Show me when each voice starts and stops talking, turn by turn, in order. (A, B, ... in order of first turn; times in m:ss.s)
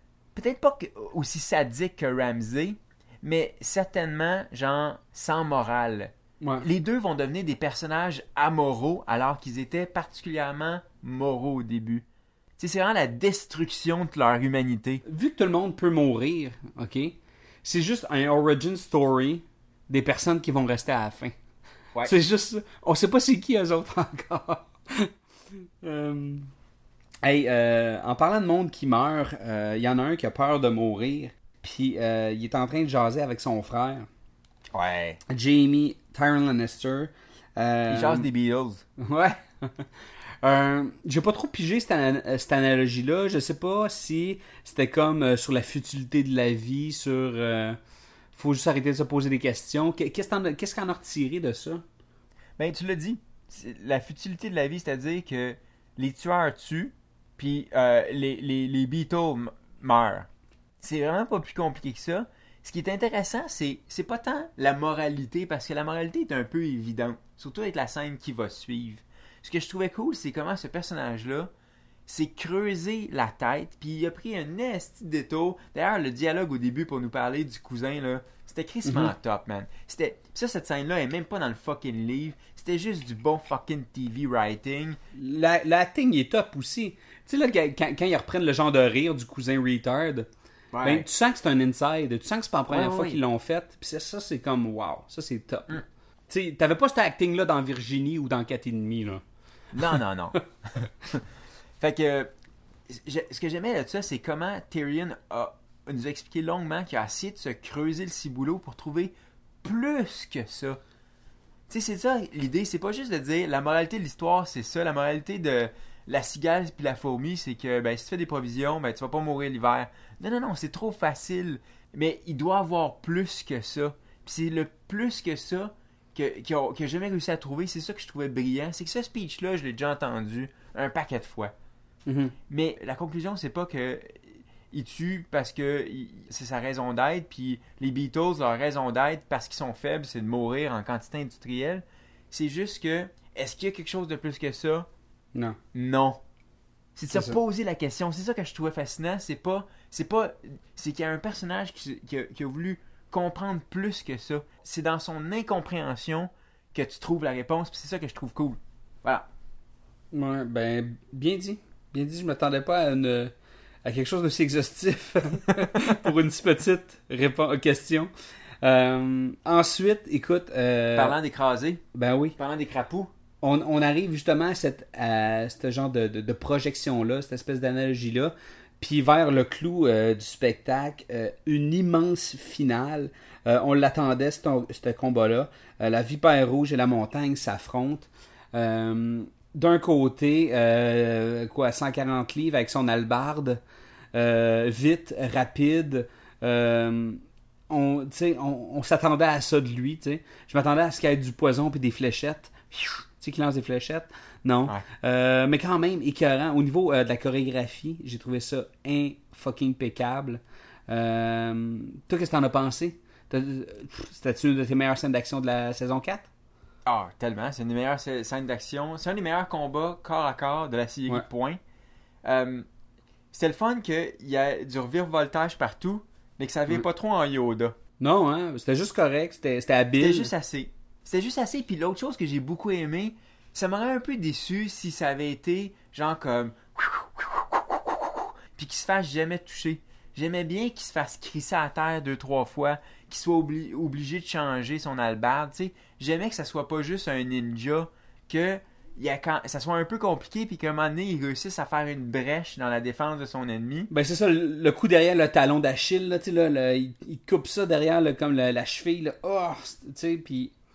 0:00.3-0:12.0 A
0:12.6-0:15.0 A
0:15.1-0:21.3 B
0:22.0-0:25.1 B
0:25.8-0:26.5 B
0:27.2-0:34.1 B
0:34.7-0:35.2 A
0:35.3-0:38.2 B
0:37.9-0:38.8 A
0:39.0-0:39.8 B
0:40.4-0:47.8 B
0:48.3-0:51.8 B
0:52.6-1:00.3 A
1:00.8-1:11.5 A
1:12.1-1:25.0 A
1:18.8-1:19.1 B
1:25.1-1:30.3 B
1:30.7-1:31.0 A
1:30.8-1:39.2 B
1:32.7-1:33.2 A
1:39.7-1:40.4 A
1:41.8-1:42.3 A
1:42.9-1:50.8 A
1:51.7-2:11.5 A
2:12.1-2:12.3 B
2:12.5-2:14.2 A
2:14.7-2:24.9 A
2:25.7-2:26.2 A
2:27.0-2:39.2 A
2:27.1-2:27.4 B
2:40.1-2:43.3 B
2:43.8-2:48.1 B
2:48.6-2:51.1 B
2:51.0-2:51.8 A
2:51.9-2:52.4 B
2:52.4-2:53.1 A
2:53.4-3:13.6 B
3:14.1-3:36.3 B
3:36.8-3:41.6 A
3:42.2-3:42.6 A
3:43.3-3:47.8 A
3:48.0-3:50.3 B
3:50.0-4:13.9 A
4:13.9-4:20.5 B